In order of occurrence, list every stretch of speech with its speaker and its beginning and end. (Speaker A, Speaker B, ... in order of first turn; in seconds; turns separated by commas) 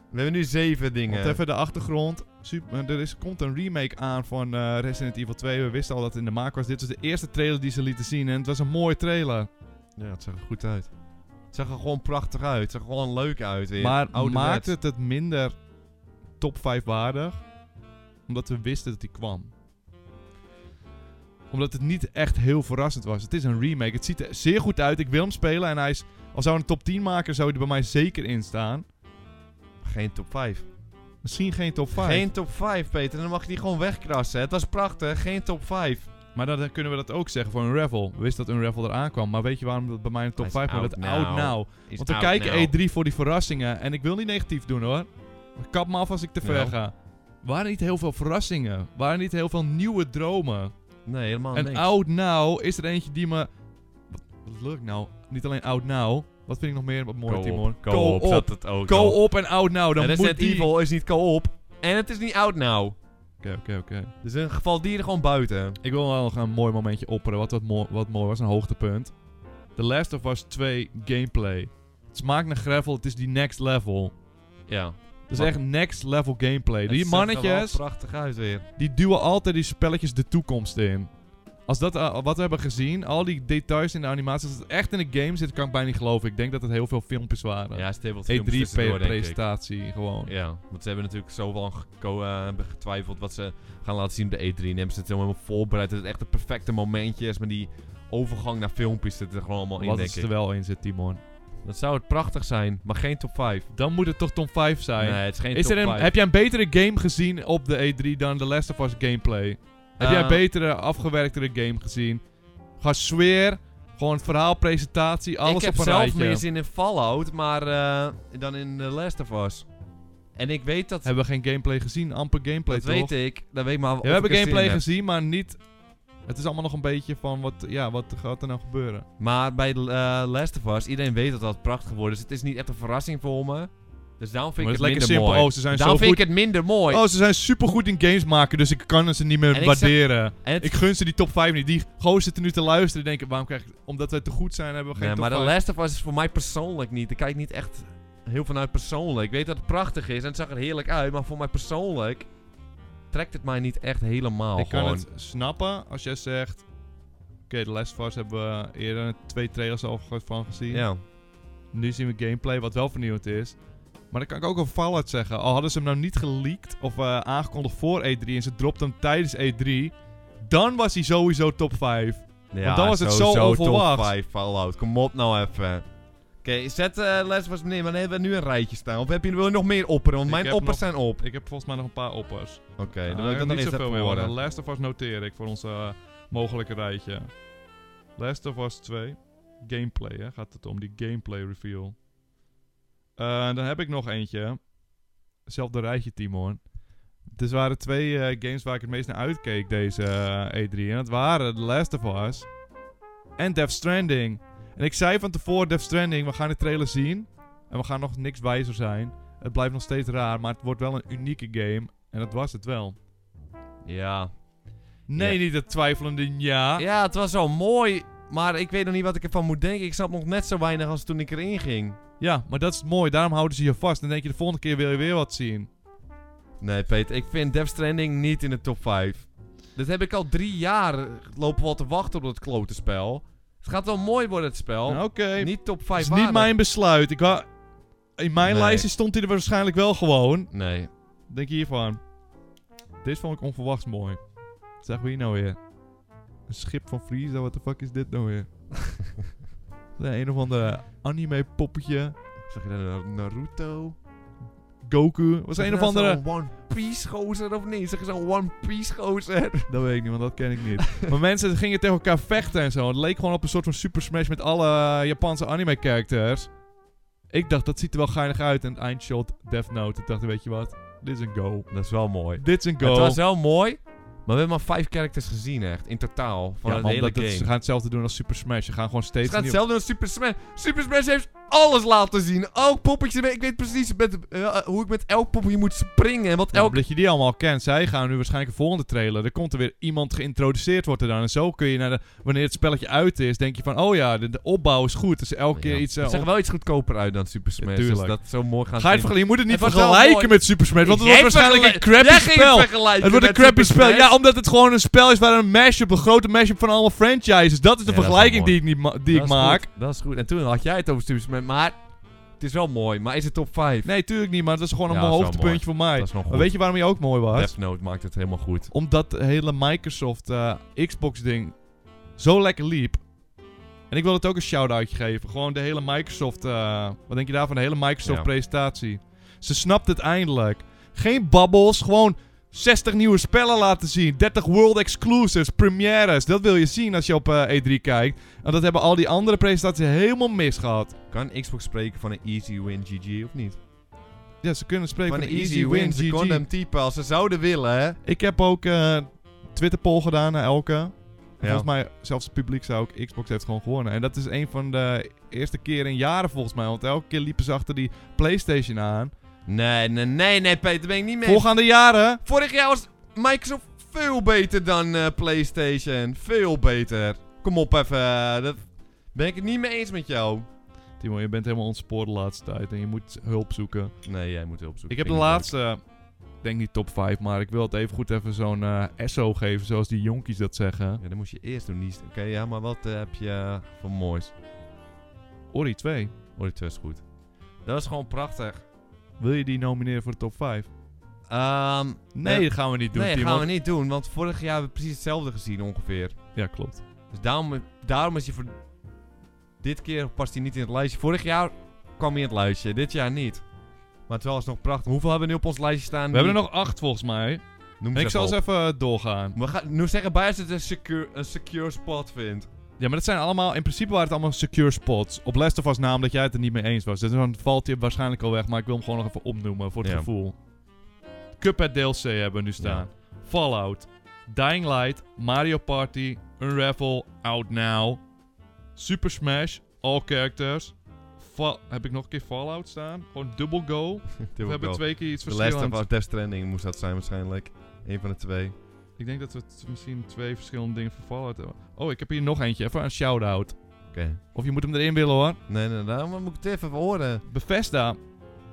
Speaker A: 0.1-1.4, Speaker B: 1.1-9.5, Speaker A: 10.0-10.9, Speaker A: 11.5-14.7, Speaker B: 13.8-15.6, Speaker B: 16.4-17.4, Speaker B: 18.3-19.5, Speaker B: 21.5-28.9, Speaker A: 29.8-30.6, Speaker B: 31.2-32.3, Speaker A: 32.0-36.1, Speaker B: 36.3-50.7, Speaker A: 40.4-42.7, Speaker A: 46.4-46.8, Speaker A: 51.0-51.9, Speaker B: 51.5-53.5, Speaker B: 54.1-60.7, Speaker A: 57.2-59.2, Speaker A: 60.0-63.0, Speaker B: 63.4-64.1, Speaker A: 64.2-65.8, Speaker B: 65.8-69.1, Speaker B: 69.8-74.1, Speaker A: 74.7-75.5, Speaker B: 75.3-77.8, Speaker A: 76.9-78.7, Speaker B: 78.8-81.1, Speaker B: 81.7-90.3, Speaker A: 87.7-89.4, Speaker A: 90.2-100.3, Speaker B: 99.8-101.2, Speaker A: 101.6-103.7, Speaker B: 103.7-112.2, Speaker A: 105.0-106.1, Speaker A: 110.0-110.4, Speaker B: 112.8-116.4, Speaker A: 115.4-119.7, Speaker A: 120.3-121.1, Speaker B: 121.0-123.1, Speaker A: 122.7-124.8, Speaker B: 124.0-125.6, Speaker B: 126.3-129.1, Speaker A: 129.2-137.0, Speaker B: 134.6-136.2, Speaker B: 136.9-145.5, Speaker A: 139.5-140.8, Speaker A: 144.9-152.3, Speaker A: 153.1-155.0, Speaker B: 154.6-156.7, Speaker B: 157.5-160.9, Speaker A: 160.7-161.0, Speaker B: 161.7-163.6, Speaker B: 164.1-169.9, Speaker B: 170.4-174.1, Speaker A: 172.5-175.8, Speaker A: 176.4-181.2, Speaker B: 180.2-187.3, Speaker A: 182.8-184.3, Speaker B: 188.2-191.9, Speaker B: 193.2-194.6, Speaker B: 195.4-196.6, Speaker B: 197.3-202.5, Speaker B: 203.4-213.0, Speaker A: 213.8-214.3, Speaker B: 215.1-216.8, Speaker A: 216.8-222.0, Speaker B: 222.2-225.7, Speaker A: 226.6-236.5, Speaker B: 234.9-237.5, Speaker B: 238.2-240.5, Speaker A: 238.4-238.9, Speaker A: 240.5-240.9, Speaker B: 241.3-242.0, Speaker B: 243.0-244.2, Speaker B: 244.8-245.6, Speaker B: 246.5-248.5, Speaker B: 250.0-252.1, Speaker A: 252.5-254.0, Speaker B: 254.8-256.2, Speaker A: 255.6-259.7, Speaker B: 259.7-266.5, Speaker A: 260.8-261.1, Speaker B: 267.3-271.7, Speaker A: 271.7-277.5, Speaker B: 272.4-273.2, Speaker B: 276.6-279.6, Speaker A: 279.2-286.8, Speaker B: 286.5-296.3, Speaker A: 295.5-304.1, Speaker B: 297.6-298.2, Speaker B: 298.8-309.7, Speaker A: 307.8-311.8, Speaker A: 312.4-313.9, Speaker B: 313.8-317.5, Speaker A: 314.9-316.5, Speaker A: 317.3-318.7, Speaker B: 318.7-321.6, Speaker B: 322.2-323.0, Speaker B: 323.9-340.9, Speaker A: 328.0-328.3, Speaker A: 341.1-343.6, Speaker B: 344.4-346.4, Speaker A: 345.1-348.0, Speaker B: 348.0-359.1, Speaker A: 351.4-351.7, Speaker A: 359.4-361.5, Speaker B: 361.2-362.2, Speaker A: 362.2-370.4, Speaker B: 371.0-373.9, Speaker A: 374.0-375.5, Speaker B: 374.9-375.8, Speaker B: 376.4-381.0, Speaker A: 381.0-384.3, Speaker B: 385.5-386.1, Speaker A: 386.4-387.0, Speaker A: 387.6-388.6, Speaker B: 389.2-390.7, Speaker A: 391.3-396.1, Speaker B: 392.1-393.5, Speaker B: 396.3-396.8, Speaker A: 397.1-398.5, Speaker A: 399.6-403.4, Speaker A: 404.1-406.4, Speaker B: 406.1-407.4, Speaker A: 407.8-408.4, Speaker B: 407.9-409.4, Speaker A: 409.4-412.5, Speaker B: 412.8-420.4, Speaker B: 421.4-428.0, Speaker A: 422.6-422.8, Speaker B: 428.8-435.8, Speaker A: 434.3-438.5, Speaker B: 439.0-443.6, Speaker A: 443.9-444.2, Speaker B: 444.3-445.4, Speaker A: 445.5-447.2, Speaker B: 447.3-448.0